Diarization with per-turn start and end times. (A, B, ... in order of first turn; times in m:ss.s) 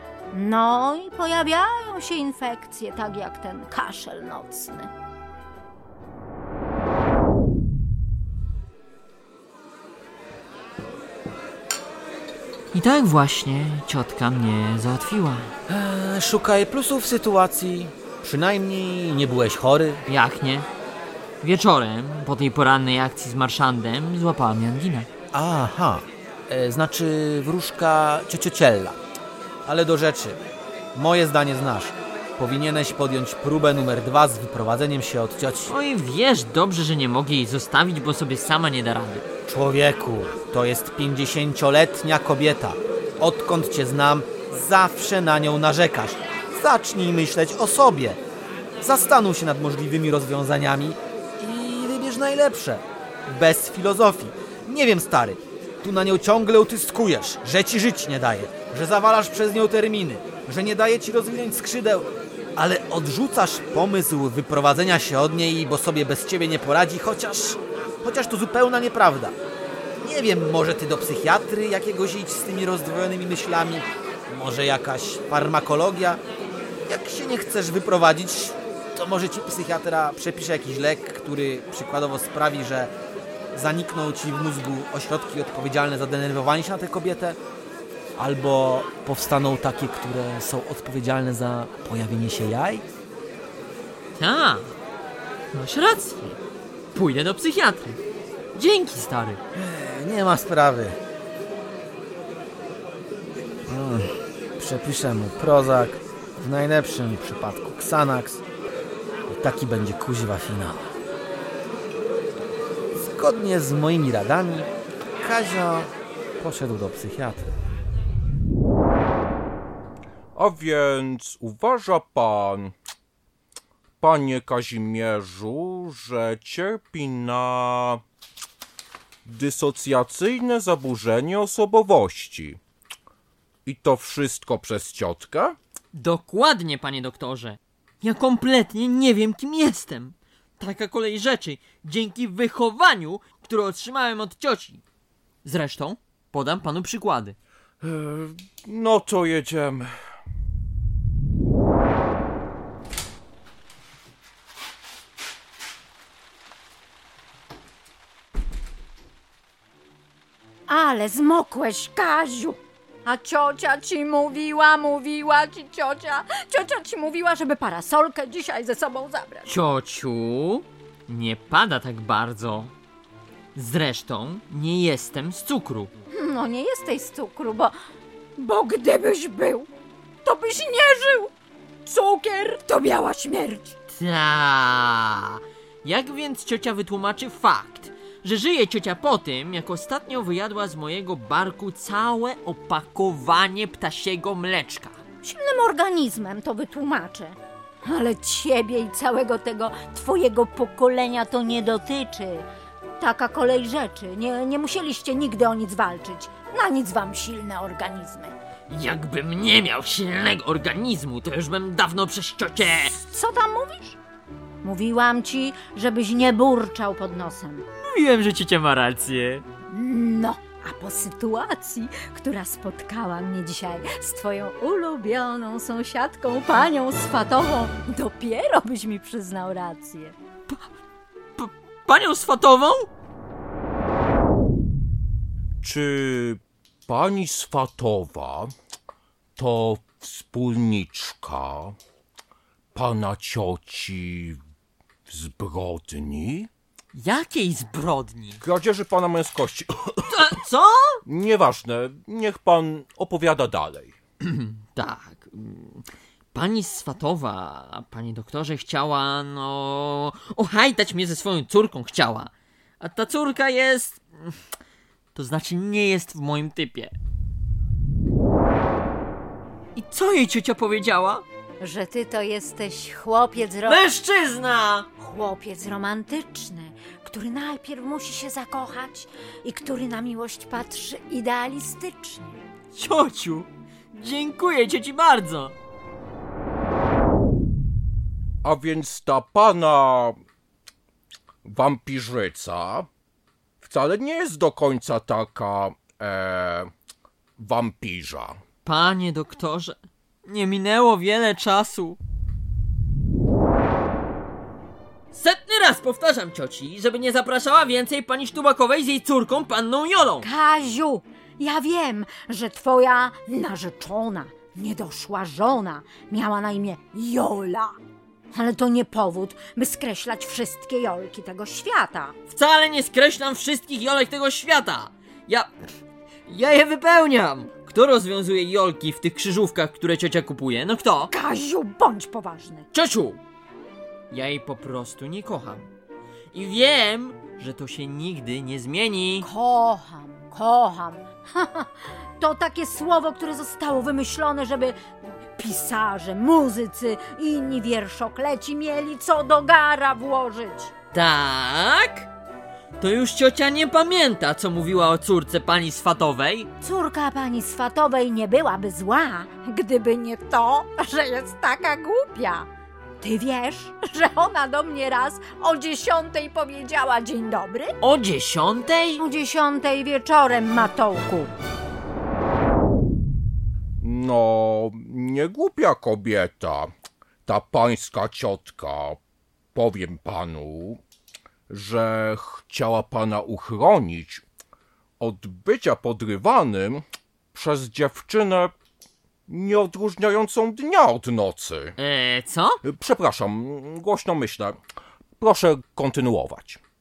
0:00.3-0:04.9 A
0:12.7-0:15.5 B
0:15.7-0:20.0 C
0:20.1-0:20.7 B
0:21.4-0:25.1 B
0:25.3-0:29.0 C
0:29.6-0:30.4 C
0:30.9-0:35.7 C
0:35.7-0:39.2 B
0:39.4-0:48.2 C
0:48.8-1:09.4 C
1:10.0-1:16.2 C
1:16.8-1:22.9 C
1:23.5-1:27.4 C
1:28.2-1:32.8 C
1:34.1-1:34.7 B
1:35.5-1:36.4 B
1:36.9-1:38.0 B
1:38.5-1:39.4 B
1:39.5-1:41.0 C
1:43.7-1:48.4 C
1:49.3-1:50.9 C
1:52.9-1:54.7 C
1:55.2-1:57.5 C
2:00.3-2:02.7 D
2:04.0-2:08.0 D
2:09.2-2:12.6 D
2:13.6-2:15.6 D
2:15.9-2:24.8 B
2:25.4-2:27.4 B
2:27.8-2:30.0 D
2:40.7-2:49.5 A
2:49.4-2:52.7 B
2:53.5-2:55.9 B
2:56.1-2:57.7 A
2:58.4-2:59.7 A
3:00.2-3:01.3 A
3:01.8-3:03.7 A
3:03.9-3:15.0 B
3:15.2-3:22.5 A
3:23.0-3:28.3 A
3:28.7-3:32.9 B
3:32.7-3:34.0 A
3:34.6-3:37.6 A
3:37.7-3:39.4 B
3:39.7-3:50.1 A
3:51.4-3:52.9 B
3:55.6-3:58.5 D
3:59.4-4:01.8 D
4:02.7-4:04.4 D
4:05.1-4:06.5 D
4:06.9-4:08.4 B
4:08.4-4:10.4 D
4:10.1-4:11.0 B
4:11.0-4:13.9 D
4:14.2-4:24.4 B
4:25.1-4:26.9 B
4:29.7-4:31.2 B
4:31.6-4:33.8 A
4:33.6-4:34.9 B
4:35.0-4:42.3 A
4:42.7-4:45.5 B
4:48.4-4:50.2 D
4:51.4-4:52.9 D
4:53.6-4:56.7 D
4:57.4-4:58.4 D
4:58.6-5:02.0 B
5:05.1-5:10.2 B
5:10.2-5:17.8 A
5:18.3-5:22.1 A
5:22.3-5:25.5 B
5:26.3-5:31.1 B
5:31.1-5:32.7 A
5:32.7-5:33.2 B
5:34.1-5:35.7 B
5:36.3-5:39.3 B
5:39.2-5:50.7 A
5:50.9-5:52.1 B
5:52.8-5:56.5 B
5:56.6-6:02.5 A
6:03.0-6:07.8 A
6:07.8-6:09.0 B
6:09.0-6:11.3 A
6:13.8-6:16.7 D
6:17.2-6:19.0 D
6:19.5-6:20.8 D
6:21.5-6:24.2 D
6:25.0-6:28.5 D
6:29.3-6:31.7 D
6:31.8-6:32.6 B
6:32.6-6:34.6 D
6:35.2-6:36.6 D